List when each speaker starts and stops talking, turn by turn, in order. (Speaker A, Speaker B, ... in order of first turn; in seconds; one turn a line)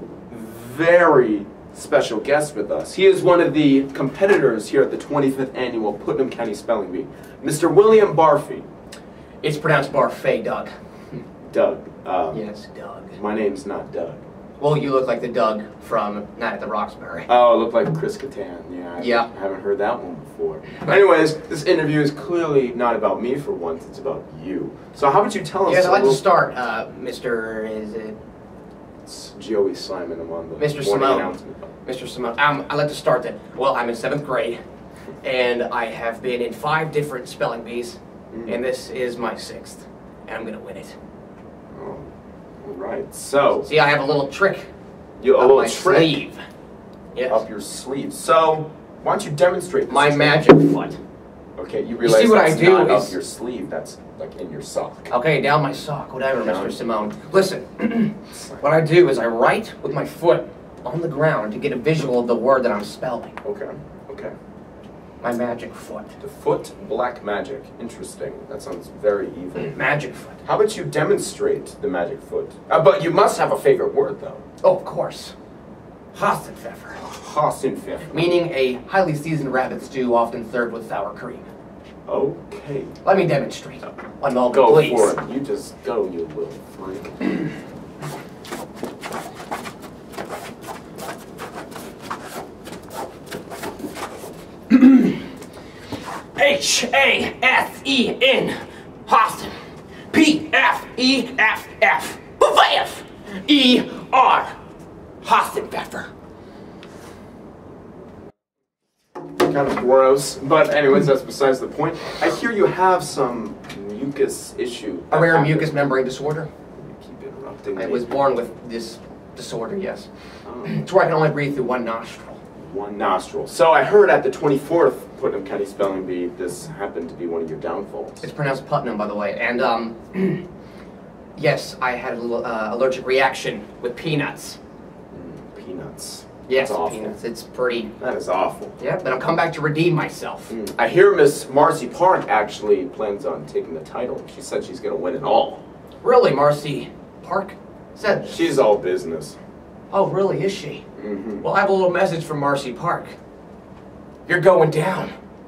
Speaker A: 0.3-8.7
Speaker B: 9.4-10.7
Speaker A: 11.5-12.4
Speaker B: 12.3-13.2
Speaker A: 13.1-14.2
Speaker B: 14.6-17.3
Speaker A: 17.3-26.2
Speaker B: 19.0-19.3
Speaker B: 25.6-28.2
Speaker A: 29.1-31.7
Speaker B: 30.6-31.3
Speaker B: 31.9-34.6
Speaker B: 35.2-41.0
Speaker A: 38.3-38.6
Speaker A: 41.7-42.1
Speaker A: 42.6-43.7
Speaker B: 43.6-44.7
Speaker A: 45.2-46.2
Speaker B: 45.4-46.4
Speaker B: 47.1-47.4
Speaker A: 47.3-50.5
Speaker B: 49.9-51.0
Speaker A: 51.5-55.1
Speaker B: 52.0-53.1
Speaker B: 55.1-63.4
Speaker A: 56.4-56.8
Speaker A: 63.4-64.3
Speaker B: 65.2-66.1
Speaker A: 66.2-69.8
Speaker B: 69.5-70.4
Speaker A: 70.4-74.4
Speaker B: 74.6-75.3
Speaker B: 76.1-77.0
Speaker A: 77.0-78.3
Speaker B: 78.1-81.4
Speaker A: 82.0-83.0
Speaker B: 83.0-85.1
Speaker A: 84.5-87.4
Speaker B: 94.7-95.2
Speaker B: 96.3-99.5
Speaker B: 100.1-104.5
Speaker B: 105.2-106.1
Speaker A: 109.4-115.9
Speaker B: 115.1-116.5
Speaker A: 116.7-118.1
Speaker B: 117.7-120.1
Speaker A: 120.4-120.8
Speaker B: 120.6-122.4
Speaker A: 122.6-128.2
Speaker B: 128.2-130.4
Speaker B: 131.3-134.6
Speaker A: 135.1-137.2
Speaker B: 136.5-137.9
Speaker A: 138.0-138.8
Speaker B: 138.8-140.6
Speaker A: 140.5-145.6
Speaker B: 146.0-148.4
Speaker A: 148.2-149.4
Speaker B: 149.9-150.8
Speaker A: 151.0-151.4
Speaker B: 151.4-153.1
Speaker B: 154.3-155.1